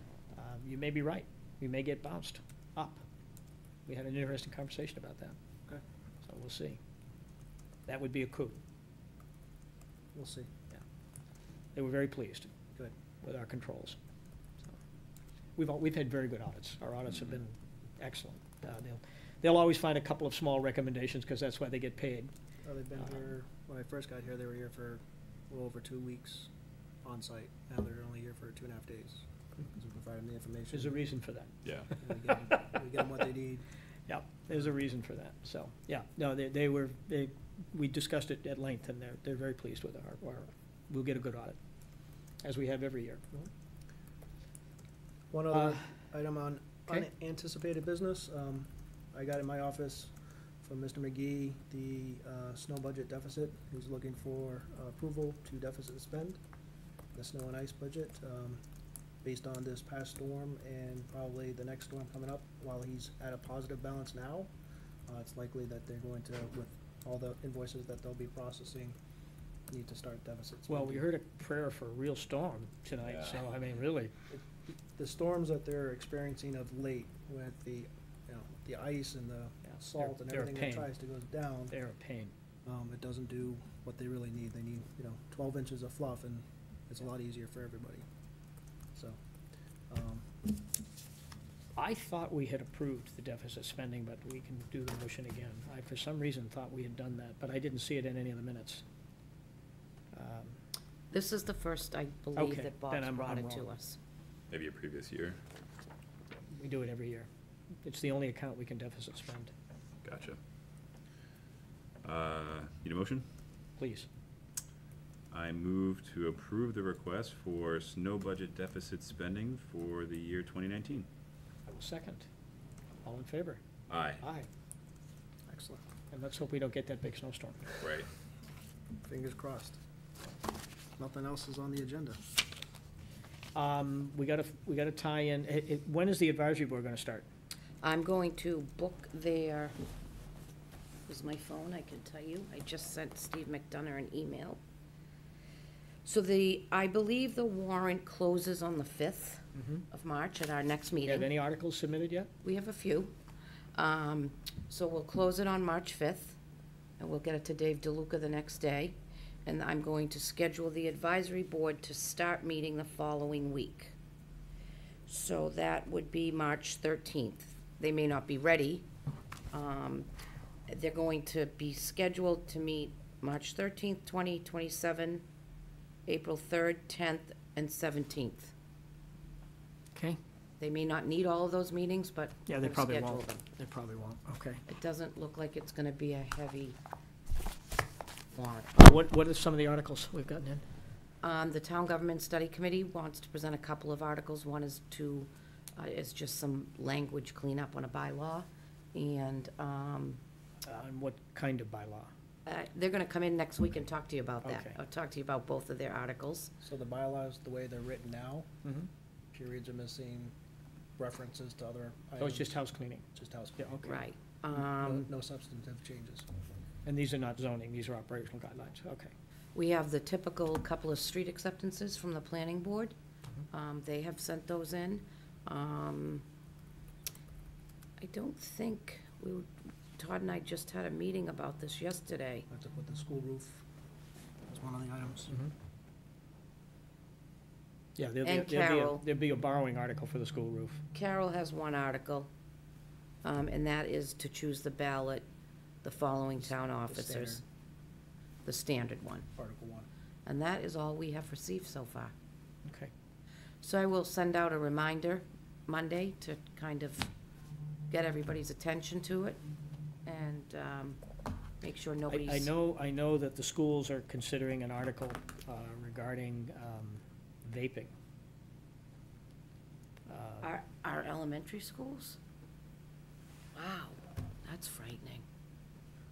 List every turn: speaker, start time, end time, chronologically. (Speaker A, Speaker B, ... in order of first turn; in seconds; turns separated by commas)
Speaker A: 0.3-3.0, Speaker A: 3.9-5.4, Speaker A: 6.2-6.8, Speaker A: 7.9-8.6, Speaker B: 10.1-10.5, Speaker A: 11.8-12.5, Speaker A: 13.2-14.0, Speaker A: 15.6-22.3, Speaker B: 22.6-26.5, Speaker B: 27.0-31.0, Speaker A: 30.7-32.3, Speaker B: 32.0-33.6, Speaker A: 34.1-41.6, Speaker A: 42.4-43.5, Speaker B: 45.3-56.4, Speaker A: 45.5-45.8, Speaker B: 57.1-58.6, Speaker B: 59.2-64.5, Speaker B: 65.1-69.0, Speaker B: 69.7-71.1, Speaker A: 70.7-74.1, Speaker C: 73.1-73.4, Speaker B: 74.3-81.7, Speaker A: 79.7-80.9, Speaker A: 81.7-82.3, Speaker B: 82.7-88.0, Speaker B: 89.9-90.3, Speaker A: 91.8-98.8, Speaker A: 100.1-100.6, Speaker D: 101.1-104.0, Speaker A: 102.4-103.7, Speaker C: 104.5-105.4, Speaker A: 106.5-107.3, Speaker A: 107.8-109.5, Speaker C: 110.0-110.4, Speaker C: 112.0-113.2, Speaker A: 113.8-114.1, Speaker C: 115.3-121.1, Speaker A: 121.7-122.3, Speaker A: 123.0-123.6, Speaker C: 123.9-124.2, Speaker A: 124.2-124.5, Speaker B: 125.5-125.8, Speaker A: 126.1-127.7, Speaker C: 127.8-128.1, Speaker B: 129.1-129.8, Speaker B: 131.0-132.2, Speaker A: 133.6-137.3, Speaker D: 137.8-139.8, Speaker D: 141.1-144.6, Speaker D: 146.0-151.3, Speaker A: 149.6-149.8, Speaker A: 151.1-152.3, Speaker D: 152.4-153.1, Speaker D: 153.8-156.4, Speaker D: 157.0-163.9, Speaker D: 165.1-168.9, Speaker D: 169.5-170.1, Speaker D: 170.7-175.2, Speaker D: 176.1-178.5, Speaker D: 180.6-183.4, Speaker A: 182.5-184.6, Speaker D: 184.7-186.8, Speaker D: 188.3-188.7, Speaker A: 188.8-190.6, Speaker D: 191.2-200.2, Speaker A: 200.7-202.1, Speaker D: 202.5-206.5, Speaker A: 204.4-204.7, Speaker B: 206.6-208.5, Speaker A: 208.6-208.9, Speaker B: 209.3-210.3, Speaker B: 211.0-212.6, Speaker A: 212.2-213.1, Speaker B: 213.2-213.7, Speaker A: 213.6-214.0, Speaker D: 213.8-215.1, Speaker B: 214.8-216.3, Speaker A: 216.8-219.1, Speaker D: 219.6-222.9, Speaker D: 223.5-226.2, Speaker D: 228.0-232.5, Speaker B: 232.5-233.6, Speaker B: 234.5-235.3, Speaker A: 238.0-240.8, Speaker D: 238.2-239.0, Speaker D: 240.9-242.3, Speaker D: 243.2-245.3, Speaker D: 245.8-247.4, Speaker B: 246.5-247.4, Speaker D: 248.4-249.3, Speaker B: 249.4-249.9, Speaker D: 250.3-252.1, Speaker A: 252.7-252.9, Speaker D: 253.6-257.1, Speaker D: 257.9-259.4, Speaker D: 260.1-261.0, Speaker D: 261.6-262.5, Speaker A: 262.1-267.9, Speaker A: 270.1-270.5, Speaker D: 270.4-272.2, Speaker D: 273.6-275.2